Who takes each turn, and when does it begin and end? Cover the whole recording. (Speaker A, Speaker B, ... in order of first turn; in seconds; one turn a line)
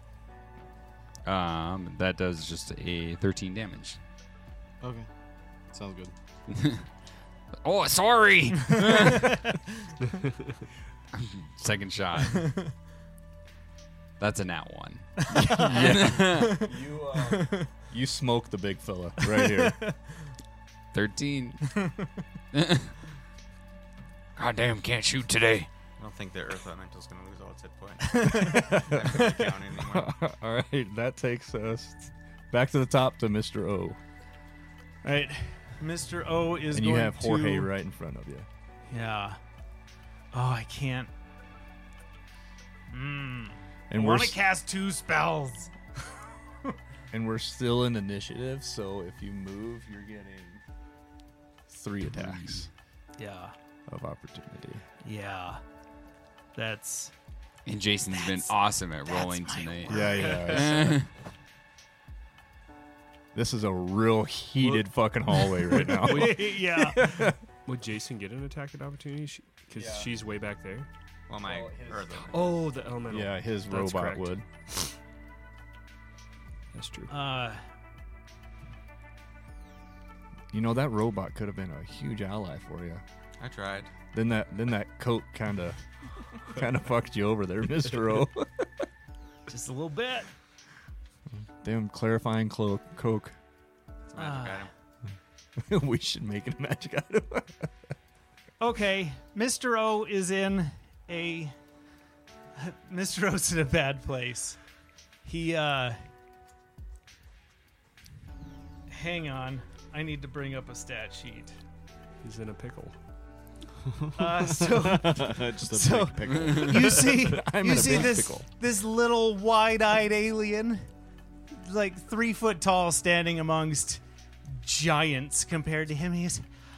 Speaker A: 1.2-4.0
Speaker B: 4.8-5.1
Speaker B: 5.7-6.1
Speaker A: 6.5-6.8
Speaker A: 7.6-9.4
Speaker C: 8.7-9.6
Speaker A: 11.1-12.5
Speaker C: 12.3-12.6
Speaker A: 14.2-16.6
Speaker C: 15.2-16.7
Speaker D: 15.7-19.8
Speaker C: 17.3-17.7
Speaker C: 19.2-20.0
Speaker A: 20.9-21.8
Speaker C: 21.7-22.1
Speaker A: 22.5-22.9
Speaker A: 24.4-25.7
Speaker E: 26.0-30.1
Speaker C: 28.0-29.3
Speaker D: 28.5-34.0
Speaker C: 35.0-37.7
Speaker D: 36.7-38.5
Speaker C: 38.9-39.4
Speaker C: 40.3-41.1
Speaker C: 42.9-45.7
Speaker D: 43.9-44.4
Speaker D: 47.1-50.6
Speaker D: 51.7-52.7
Speaker A: 52.1-52.7
Speaker C: 53.2-53.5
Speaker D: 53.9-54.8
Speaker C: 55.0-55.6
Speaker C: 56.6-57.1
Speaker A: 57.7-61.1
Speaker C: 58.1-58.5
Speaker C: 59.1-60.8
Speaker D: 59.9-61.0
Speaker D: 63.3-67.4
Speaker C: 65.7-67.1
Speaker F: 65.7-70.9
Speaker D: 69.7-70.1
Speaker E: 71.3-72.7
Speaker D: 71.4-74.5
Speaker F: 72.3-74.9
Speaker F: 76.7-77.1
Speaker C: 77.1-77.6
Speaker D: 80.5-83.0
Speaker E: 83.4-83.9
Speaker D: 84.1-85.8
Speaker D: 86.3-88.8
Speaker C: 89.5-90.3
Speaker D: 91.4-93.4
Speaker E: 94.1-94.7
Speaker C: 94.2-94.7
Speaker D: 95.6-97.7
Speaker C: 98.6-101.5
Speaker C: 102.6-104.6
Speaker C: 105.2-106.0
Speaker C: 108.9-111.5
Speaker F: 112.2-113.0
Speaker B: 113.9-117.1
Speaker C: 114.2-120.8
Speaker D: 117.0-118.5
Speaker C: 121.5-126.5